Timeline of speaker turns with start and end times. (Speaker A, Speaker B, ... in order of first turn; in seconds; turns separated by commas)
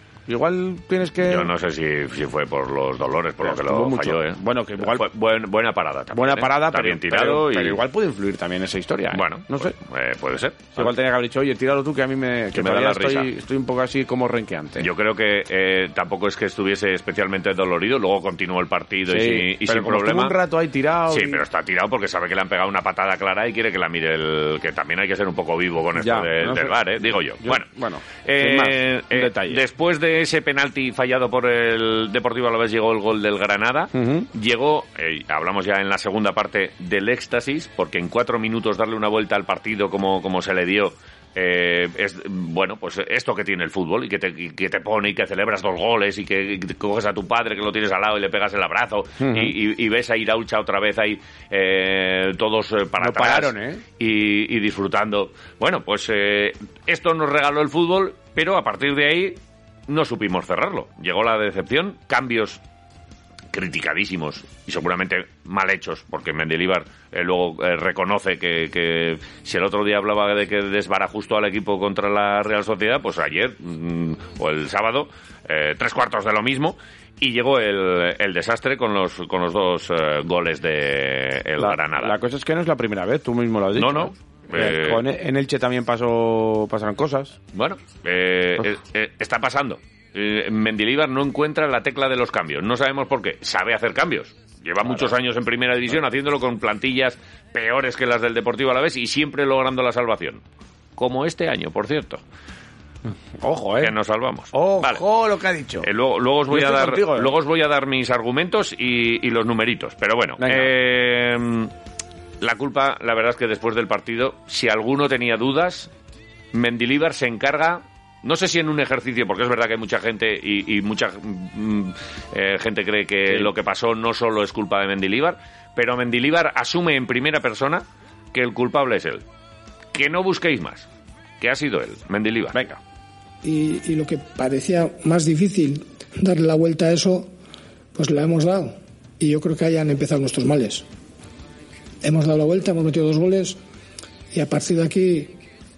Speaker A: 0.3-1.5, Speaker B: 1.2-7.8, Speaker A: 3.4-5.0, Speaker A: 6.1-9.7, Speaker B: 9.1-10.9, Speaker A: 10.7-14.9, Speaker B: 12.5-13.3, Speaker B: 14.8-20.4, Speaker A: 19.1-21.4, Speaker B: 21.1-27.7, Speaker A: 26.0-29.6, Speaker B: 28.2-62.6, Speaker A: 33.9-34.3, Speaker A: 49.2-49.5, Speaker A: 53.0-53.8, Speaker B: 63.5-82.2, Speaker A: 81.6-87.3, Speaker B: 83.8-85.0, Speaker B: 87.5-100.4, Speaker B: 101.0-102.2, Speaker A: 103.4-103.9, Speaker B: 103.8-105.0, Speaker A: 104.5-105.9, Speaker B: 105.8-111.7, Speaker A: 106.5-107.3, Speaker A: 110.4-110.7, Speaker B: 112.4-115.9, Speaker B: 116.5-129.2, Speaker B: 129.9-130.8, Speaker B: 131.4-132.6, Speaker A: 132.5-132.8, Speaker C: 133.4-137.3, Speaker C: 137.9-140.8, Speaker C: 142.0-143.6, Speaker C: 144.3-145.4